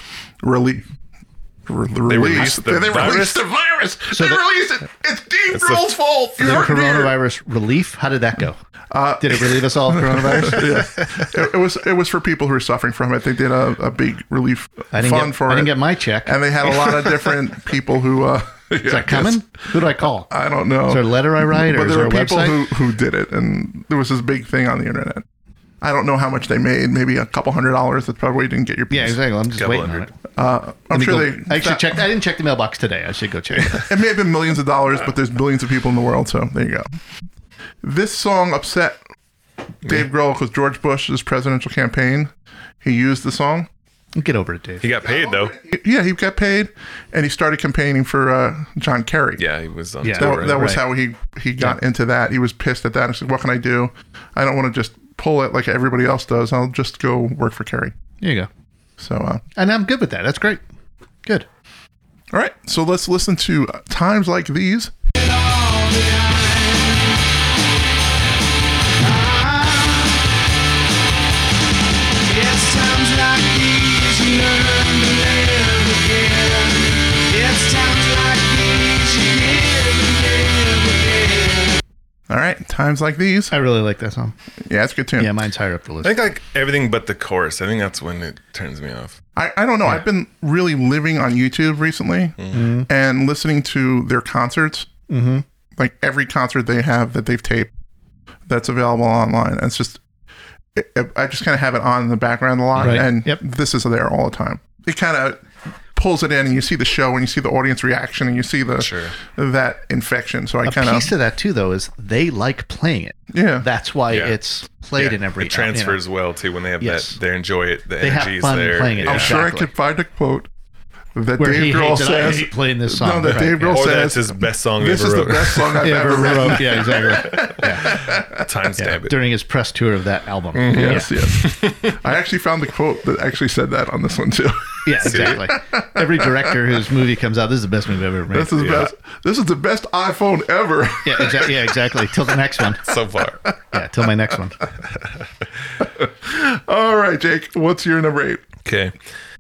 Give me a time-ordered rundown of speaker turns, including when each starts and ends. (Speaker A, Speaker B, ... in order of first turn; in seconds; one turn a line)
Speaker A: 0.4-0.9
Speaker A: 1.7-7.1
Speaker B: 2.1-3.4
Speaker C: 4.1-4.4
Speaker B: 5.5-5.9
Speaker C: 6.4-8.6
Speaker A: 8.9-19.5
Speaker C: 9.2-10.8
Speaker C: 14.9-16.4
Speaker C: 18.9-20.3
Speaker A: 20.3-25.2
Speaker C: 20.9-22.6
Speaker A: 25.8-29.2
Speaker C: 28.9-30.1
Speaker B: 29.6-30.1
Speaker A: 30.4-32.0
Speaker C: 30.9-33.9
Speaker A: 33.9-37.0
Speaker A: 37.8-39.0
Speaker A: 39.8-42.3
Speaker A: 42.8-43.7
Speaker C: 44.1-44.9
Speaker B: 44.8-45.5
Speaker A: 45.2-49.4
Speaker B: 49.4-50.8
Speaker C: 50.0-50.8
Speaker A: 50.2-57.9
Speaker C: 58.2-58.5
Speaker A: 59.0-59.4
Speaker C: 59.6-60.6
Speaker A: 62.3-64.9
Speaker D: 65.2-67.3
Speaker D: 69.0-70.3
Speaker D: 72.2-81.8
Speaker A: 82.3-83.5
Speaker C: 83.5-84.3
Speaker A: 84.6-85.3
Speaker C: 85.2-86.2
Speaker B: 86.0-89.2
Speaker A: 89.4-94.9
Speaker B: 92.4-92.6
Speaker C: 92.5-92.9
Speaker C: 95.1-95.5
Speaker A: 95.8-97.7
Speaker A: 98.5-100.0
Speaker A: 100.8-105.4
Speaker B: 102.8-103.0
Speaker C: 102.8-103.4
Speaker A: 106.0-111.1
Speaker B: 108.8-109.2
Speaker C: 110.7-116.0
Speaker A: 113.3-113.7
Speaker B: 115.0-119.4
Speaker C: 116.8-117.2
Speaker C: 118.0-119.7
Speaker A: 119.0-120.5
Speaker A: 121.2-128.5
Speaker C: 121.4-123.8
Speaker B: 123.6-129.2
Speaker C: 125.8-127.9
Speaker C: 128.8-131.1
Speaker B: 130.5-132.0
Speaker A: 130.7-136.6
Speaker C: 134.8-138.8
Speaker B: 135.0-135.4
Speaker A: 138.3-142.3
Speaker C: 141.0-142.9
Speaker B: 142.8-143.5
Speaker C: 143.7-144.6
Speaker B: 144.9-145.3
Speaker A: 145.8-148.4
Speaker B: 148.7-148.9